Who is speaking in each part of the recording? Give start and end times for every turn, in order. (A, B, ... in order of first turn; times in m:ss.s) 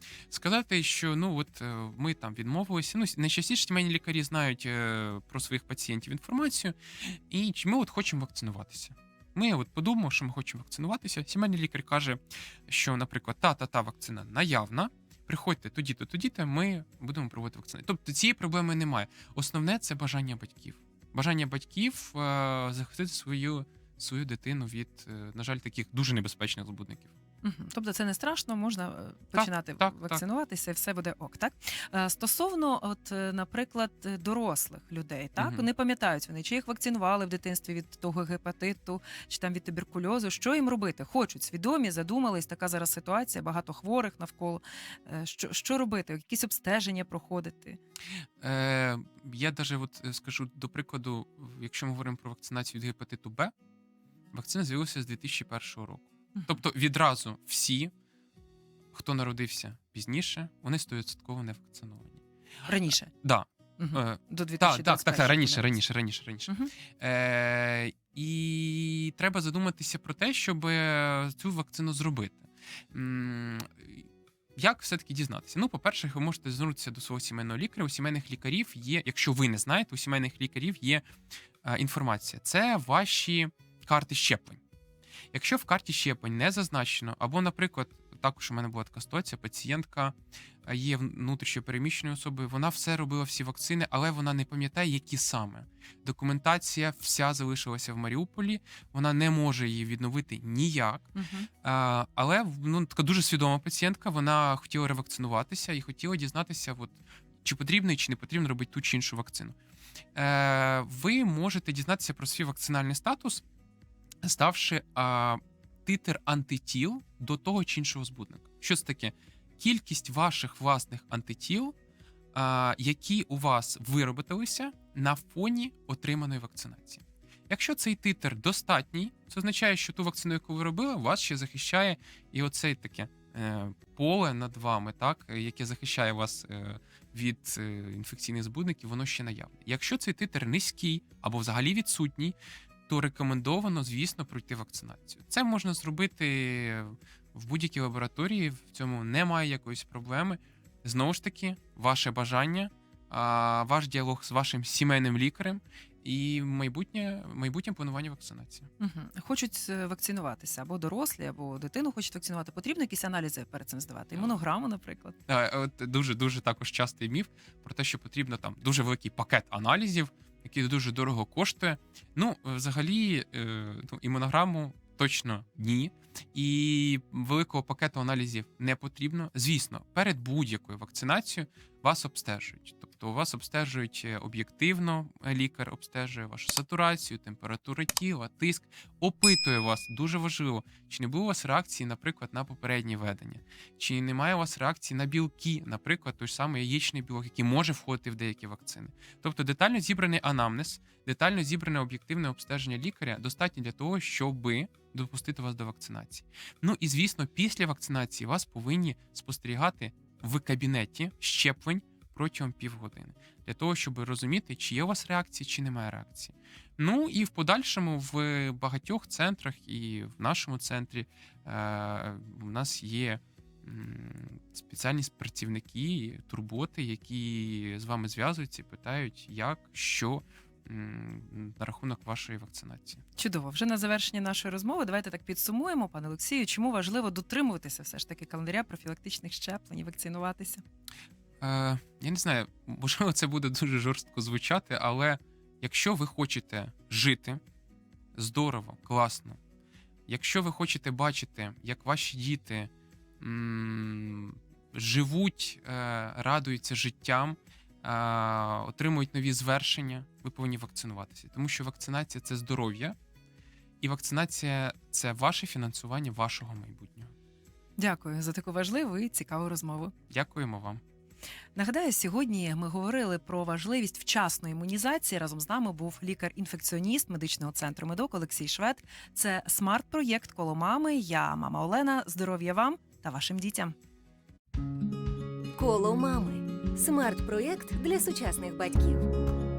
0:00.3-0:27.1 A
0:27.4-0:47.8 B
0:29.3-0:30.2 A
0:35.4-0:35.6 A
0:48.4-0:53.5 A
0:54.3-0:57.9 A
0:58.9-1:02.2 A
1:02.6-1:03.1 B
1:02.9-1:21.0 A
1:03.8-1:05.8 B
1:21.6-1:24.6 A
1:25.3-1:41.1 A
1:41.2-1:41.5 B
1:41.6-1:49.6 A
1:50.1-1:53.4 A
1:54.2-2:01.7 A
2:02.3-2:22.4 A
2:22.9-2:38.7 A
2:38.8-2:45.2 B
2:45.3-3:53.0 A
3:53.2-4:00.6 B
4:01.4-4:07.4 A
4:08.1-4:09.4 A
4:10.1-4:22.9 A
4:23.8-4:27.1 A
4:27.8-4:29.9 B
4:30.1-4:30.8 A
4:31.5-4:43.7 B
4:45.5-4:49.2 C